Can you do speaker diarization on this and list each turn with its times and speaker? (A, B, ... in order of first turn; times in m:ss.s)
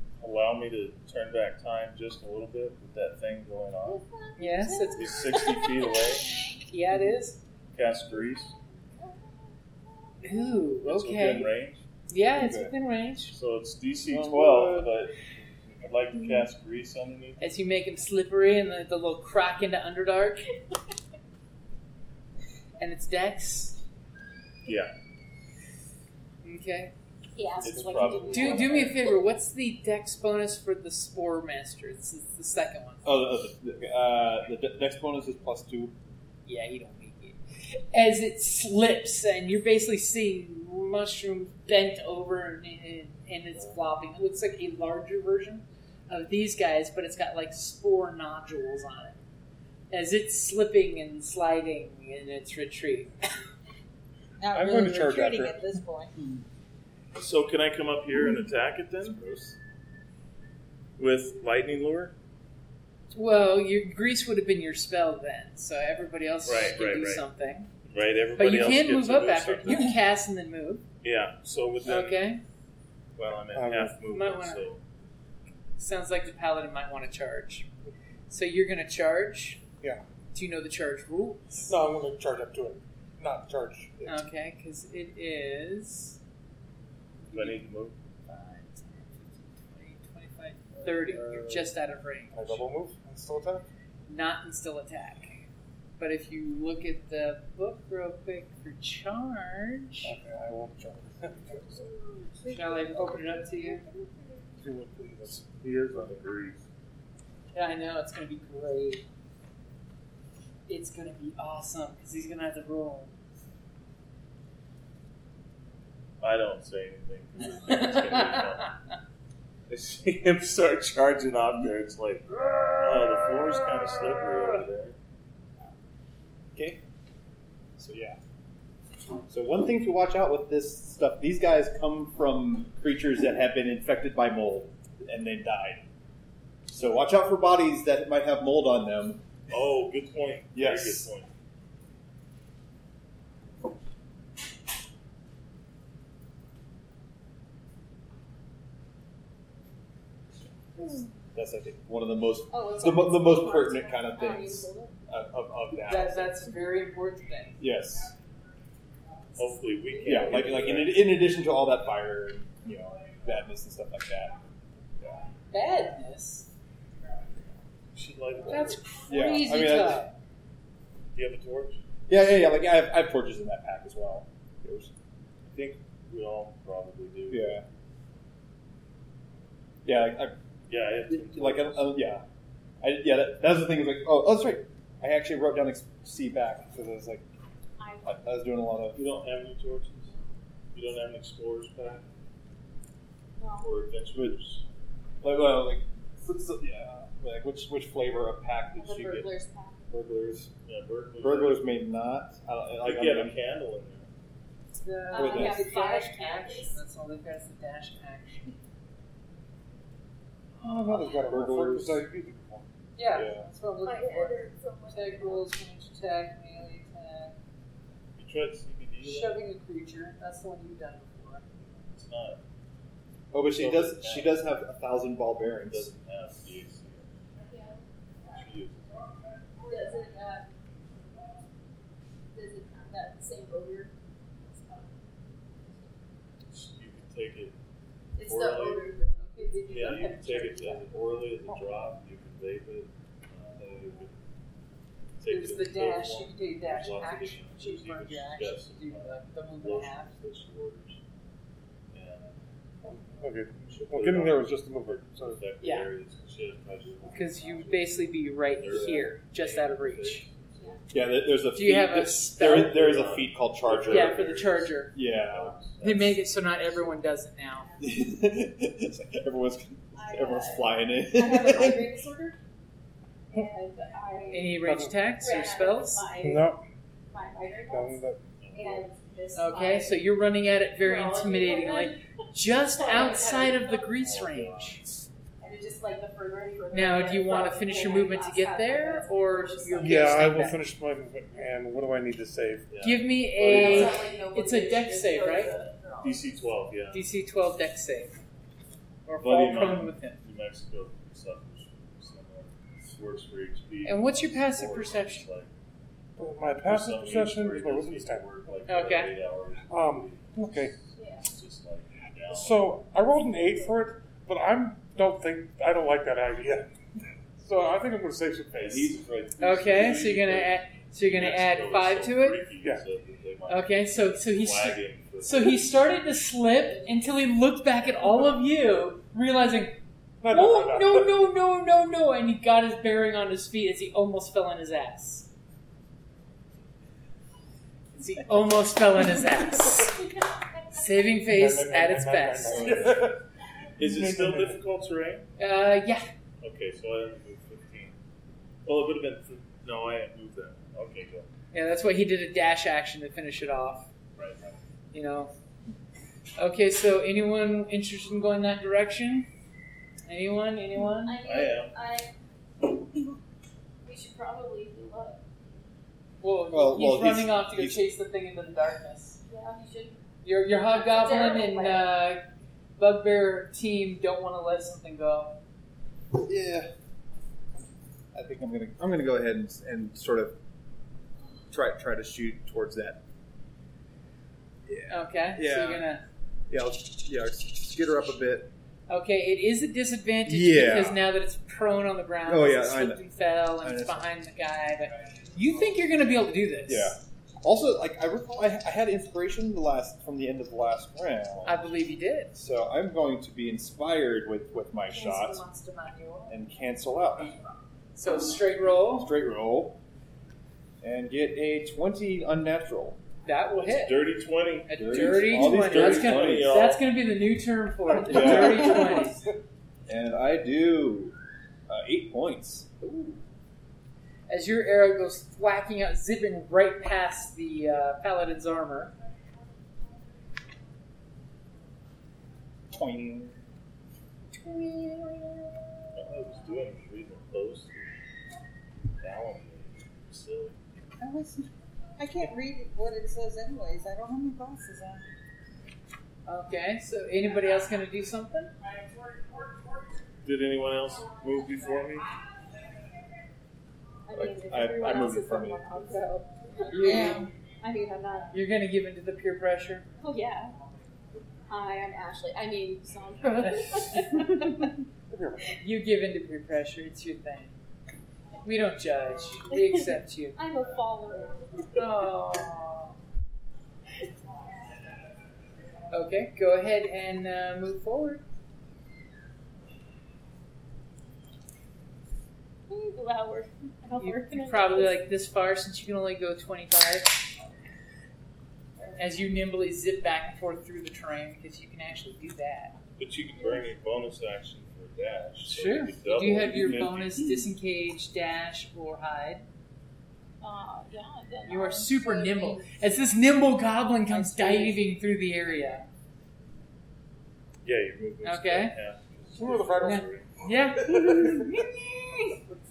0:00.2-0:04.0 A
0:03.8-0:06.6 B
0:04.4-0:05.4 C
0:05.0-0:06.3 A
0:06.7-0:07.4 C
0:07.7-0:08.5 A
0:10.2-0:11.5 C
0:10.9-0:11.8 A
0:12.1-0:13.3 C
0:12.4-0:12.7 D
0:13.3-0:15.1 A
0:14.1-0:14.9 D
0:15.8-0:17.4 A
0:17.4-0:20.4 C
0:22.8-0:23.8 C
0:24.7-0:24.9 A
0:26.4-0:26.9 C
0:27.4-0:29.2 B
0:27.6-0:28.9 A
0:28.3-0:33.1 C
0:33.0-0:35.9 D
0:36.5-0:37.4 C
0:37.9-0:49.2 C
0:49.9-0:53.1 C
0:54.4-0:56.2 E
0:54.5-0:55.6 F
0:57.2-0:59.2 A
0:59.0-0:59.5 D
1:01.0-1:02.1 A
1:03.1-1:07.7 C
1:06.4-1:07.2 A
1:07.9-1:10.0 A
1:08.4-1:10.8 C
1:11.0-1:12.2 A
1:11.9-1:12.4 C
1:13.2-1:14.8 A
1:13.5-1:14.0 F
1:14.1-1:14.7 C
1:15.8-1:17.7 C
1:18.3-1:19.6 C
1:20.3-1:21.8 C
1:21.7-1:24.2 F
1:24.0-1:26.2 C
1:27.3-1:27.6 C
1:27.3-1:28.0 A
1:28.3-1:32.6 C
1:31.1-1:31.5 D
1:32.3-1:33.7 F
1:34.1-1:35.4 C
1:36.0-1:40.1 C
1:40.0-1:41.8 F
1:41.8-1:43.8 E
1:42.5-1:43.8 C
1:44.6-1:46.6 F
1:45.9-1:46.2 A
1:47.5-1:49.0 C
1:50.7-1:53.1 C
1:56.2-1:58.7 A
1:57.7-1:58.4 C
1:59.7-2:05.0 A
2:06.6-2:06.8 D
2:07.8-2:08.2 D
2:09.3-2:15.8 D
2:16.7-2:19.2 D
2:19.5-2:21.3 A
2:20.5-2:21.1 D
2:30.8-2:36.4 D
2:32.5-2:35.0 B
2:35.9-2:37.6 C
2:37.6-2:38.1 D
2:39.4-2:41.2 A
2:40.0-2:44.4 D
2:45.5-2:46.5 C
2:47.9-2:48.8 A
2:48.5-2:50.1 C
2:49.1-2:50.0 D
2:51.1-2:51.8 A
2:52.1-2:54.9 D
2:55.5-2:57.6 A
2:57.3-2:57.6 D
2:59.8-3:00.4 D
3:00.7-3:02.0 A
3:01.1-3:02.2 D
3:02.8-3:07.2 D
3:07.8-3:08.2 B
3:08.0-3:09.0 D
3:09.0-3:10.1 A
3:10.7-3:12.0 A
3:13.4-3:13.7 B
3:13.6-3:14.6 A
3:15.2-3:19.3 D
3:18.8-3:19.9 B
3:19.9-3:20.5 D
3:20.6-3:21.9 A
3:21.2-3:23.4 D
3:22.8-3:24.1 A
3:24.7-3:28.5 C
3:25.1-3:26.8 B
3:25.2-3:25.7 D
3:30.6-3:32.7 F
3:31.1-3:32.0 D
3:33.0-3:37.3 C
3:33.1-3:33.5 D
3:33.8-3:35.5 B
3:38.2-3:39.4 A
3:39.0-3:41.4 C
3:41.9-3:42.4 A
3:43.3-3:45.9 D
3:43.5-3:44.4 A
3:45.7-3:47.1 A
3:47.4-3:48.4 B
3:48.3-3:49.1 A
3:49.6-3:50.5 B
3:52.3-3:53.9 B
3:54.5-3:55.0 B
3:56.5-3:57.6 A
3:58.2-4:00.8 B
3:58.2-3:58.8 A
3:59.2-4:00.8 C
3:59.7-4:04.1 A
4:05.2-4:11.0 A
4:05.3-4:10.1 C
4:11.9-4:12.4 A
4:12.8-4:15.4 F
4:13.6-4:20.8 A
4:15.6-4:15.9 C
4:17.1-4:20.2 C
4:20.9-4:24.3 D
4:21.5-4:22.8 C
4:22.4-4:26.6 A
4:23.9-4:24.9 C
4:24.9-4:25.6 D
4:25.8-4:27.7 C
4:27.8-4:31.9 D
4:30.0-4:32.4 B
4:33.3-4:34.6 B
4:34.3-4:36.1 C
4:34.6-4:35.0 F
4:35.2-4:36.5 B
4:36.2-4:36.6 F
4:37.1-4:40.0 B
4:37.7-4:38.2 F
4:38.4-4:38.9 A
4:39.4-4:44.8 C
4:40.8-4:42.0 B
4:42.8-4:43.9 B
4:43.2-4:44.9 A
4:45.4-4:50.5 B
4:46.7-4:50.6 C
4:49.8-4:52.7 F
4:52.7-4:54.1 A
4:52.8-4:55.5 C
4:53.4-4:56.4 B
4:56.0-4:57.0 A
4:56.9-4:58.2 C
4:59.1-5:00.2 C
4:59.2-5:05.5 A
5:03.8-5:05.2 C
5:06.2-5:08.3 F
5:06.6-5:12.8 A
5:08.7-5:09.1 C
5:09.7-5:10.8 F
5:11.0-5:11.3 B
5:12.3-5:16.7 F
5:17.4-5:19.0 F
5:18.6-5:25.7 A
5:19.4-5:22.4 C
5:23.5-5:35.3 C
5:26.6-5:27.1 B
5:30.2-5:31.1 F
5:38.0-5:40.0 C
5:40.7-5:42.8 C
5:41.3-5:43.2 F
5:43.8-5:45.3 A
5:43.8-5:44.6 F
5:45.4-5:46.0 C
5:46.4-5:48.0 A
5:48.6-5:51.3 A
5:51.5-5:53.9 C
5:54.2-5:54.6 A
5:54.9-5:55.3 C
5:56.4-5:59.3 C
6:00.1-6:01.2 C
6:01.0-6:02.1 B
6:01.2-6:01.7 A
6:03.8-6:05.2 B
6:06.2-6:09.2 C
6:06.5-6:07.8 D
6:09.3-6:10.0 B
6:10.2-6:12.2 C
6:10.7-6:11.9 B
6:12.8-6:15.4 C
6:16.1-6:16.7 D
6:18.1-6:20.4 D
6:21.5-6:23.0 D
6:24.7-6:25.9 D
6:24.9-6:26.0 C
6:26.5-6:28.5 D
6:28.9-6:37.0 C
6:30.2-6:31.0 D
6:32.2-6:33.0 D
6:33.6-6:34.1 D
6:36.7-6:41.7 D
6:41.4-6:42.3 C
6:42.4-6:45.4 D
6:44.9-6:46.4 C
6:46.3-6:47.3 D
6:48.0-6:49.1 C
6:49.0-6:49.8 D
6:50.8-6:53.0 D
6:53.2-6:54.1 C
6:53.6-6:56.8 A
6:54.7-6:59.2 C
6:54.8-6:56.6 D
6:58.0-6:59.0 D
6:59.9-7:01.2 D
7:01.7-7:02.7 D
7:02.8-7:03.2 C
7:04.3-7:08.9 C
7:12.7-7:13.4 D
7:14.4-7:15.5 E
7:16.0-7:17.9 A
7:19.0-7:20.6 A
7:21.0-7:25.1 E
7:26.3-7:28.5 C
7:30.2-7:32.1 A
7:34.1-7:38.3 B
7:34.1-7:36.0 D
7:36.7-7:37.3 C
7:36.8-7:37.3 E
7:38.3-7:39.9 C
7:40.0-7:40.5 B
7:41.5-7:44.7 B
7:43.4-7:44.3 C
7:45.1-7:45.5 F
7:45.6-7:47.6 C
7:48.4-7:50.4 C
7:49.5-7:51.8 B
7:51.8-7:52.9 C
7:55.9-7:58.2 C
8:02.7-8:05.0 B
8:04.0-8:07.2 C
8:09.0-8:12.8 C
8:13.0-8:17.3 A
8:13.4-8:13.7 B
8:15.5-8:19.4 C
8:20.4-8:22.8 B
8:21.5-8:25.9 C
8:24.1-8:24.8 B
8:27.6-8:30.3 A
8:28.2-8:28.7 C
8:29.4-8:30.1 F
8:29.8-8:32.4 C
8:30.8-8:31.6 F